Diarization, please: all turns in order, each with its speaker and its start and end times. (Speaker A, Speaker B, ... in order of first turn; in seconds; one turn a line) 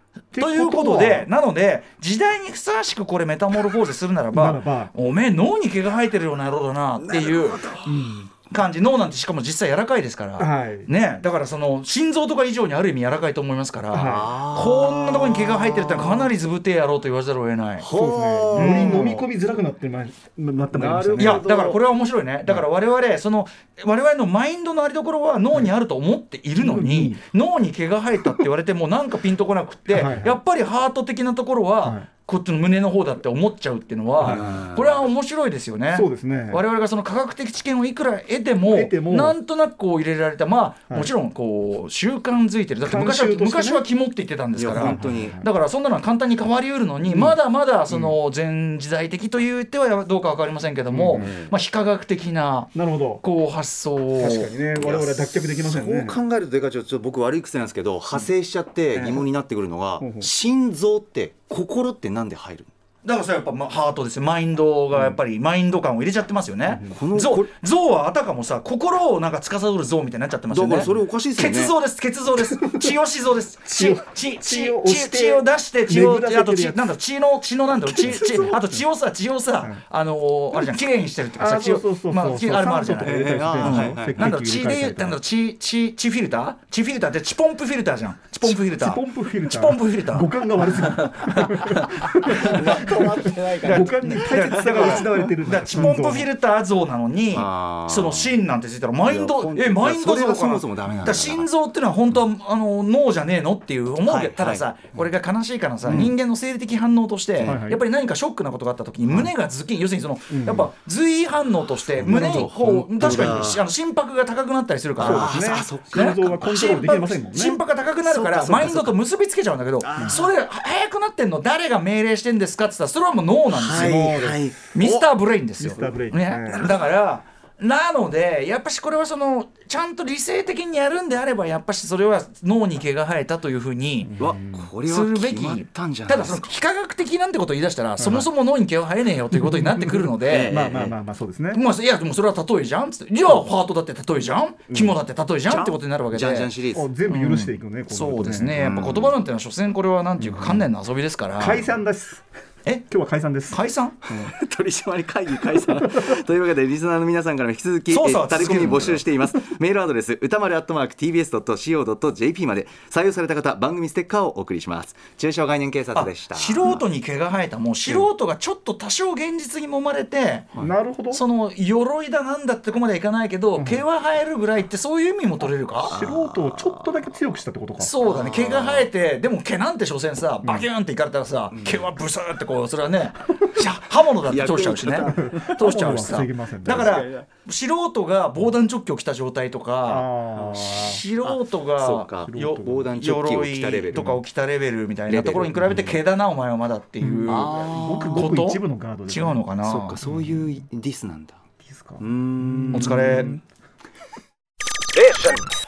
Speaker A: 0.3-1.3
Speaker B: 0.4-7.8
Speaker A: 4.3-4.9
Speaker C: 7.0-7.9
Speaker A: 7.8-8.3
Speaker B: 8.5-17.9
Speaker A: 10.4-10.9
Speaker A: 13.9-14.4
Speaker C: 14.0-16.3
Speaker C: 17.8-19.1
Speaker A: 17.9-21.5
Speaker B: 18.5-19.2
Speaker C: 20.7-21.8
Speaker B: 21.2-54.6
Speaker A: 26.6-27.2
Speaker A: 29.9-30.4
Speaker A: 31.8-32.1
Speaker A: 34.2-34.6
Speaker C: 34.2-35.1
Speaker A: 35.9-36.6
Speaker A: 38.6-39.4
Speaker A: 42.8-43.9
Speaker C: 44.5-45.4
Speaker A: 44.7-45.5
Speaker A: 47.0-47.4
Speaker A: 47.9-48.2
Speaker A: 50.9-51.4
Speaker C: 51.2-51.5
Speaker A: 52.7-53.2
Speaker A: 54.1-56.2
Speaker C: 54.6-62.7
Speaker A: 58.9-59.2
Speaker A: 60.0-60.3
Speaker B: 63.0-93.0
Speaker A: 66.6-67.0
Speaker C: 66.9-67.5
Speaker C: 70.5-71.8
Speaker A: 72.4-73.0
Speaker A: 73.7-77.0
Speaker A: 77.7-78.8
Speaker A: 81.4-85.2
Speaker C: 83.0-84.4
Speaker A: 88.4-96.3
Speaker C: 92.2-95.2
Speaker B: 93.6-124.2
Speaker C: 97.3-98.4
Speaker C: 99.0-101.5
Speaker C: 104.0-104.8
Speaker C: 105.8-106.2
Speaker A: 107.4-107.8
Speaker C: 109.0-109.3
Speaker A: 110.3-110.7
Speaker C: 111.9-113.7
Speaker A: 112.0-113.6
Speaker C: 115.0-116.6
Speaker A: 115.0-117.6
Speaker C: 118.0-119.0
Speaker C: 119.8-120.3
Speaker C: 123.5-125.8
Speaker A: 123.7-124.7
Speaker B: 124.7-134.2
Speaker A: 125.6-126.7
Speaker C: 126.5-126.8
Speaker A: 134.0-134.7
Speaker C: 134.2-136.5
Speaker B: 134.8-140.6
Speaker A: 138.0-138.2
Speaker A: 139.3-141.6
Speaker C: 140.2-140.9
Speaker B: 141.5-146.5
Speaker A: 144.7-145.0
Speaker C: 145.5-146.9
Speaker A: 146.7-148.6
Speaker B: 147.1-151.8
Speaker C: 148.6-149.2
Speaker A: 150.2-150.7
Speaker A: 151.4-152.2
Speaker A: 152.9-154.3
Speaker B: 153.5-154.0
Speaker C: 154.1-166.8
Speaker B: 157.9-159.1
Speaker B: 165.9-170.5
Speaker A: 170.6-171.2
Speaker B: 171.1-176.0
Speaker A: 173.6-173.8
Speaker A: 175.8-178.0
Speaker C: 175.9-177.1
Speaker B: 177.8-200.0
Speaker C: 178.0-178.9
Speaker A: 180.4-180.7
Speaker C: 181.5-181.9
Speaker C: 184.3-185.6
Speaker A: 185.0-186.9
Speaker C: 186.7-187.3
Speaker A: 189.8-191.0
Speaker C: 190.4-194.2
Speaker A: 192.3-192.9
Speaker A: 194.0-194.2
Speaker C: 195.1-196.0
Speaker A: 195.5-195.8
Speaker A: 197.0-200.5
Speaker C: 197.3-198.3
Speaker C: 199.6-201.4
Speaker A: 201.6-203.4
Speaker C: 202.0-203.2
Speaker B: 202.7-203.4
Speaker C: 205.0-205.4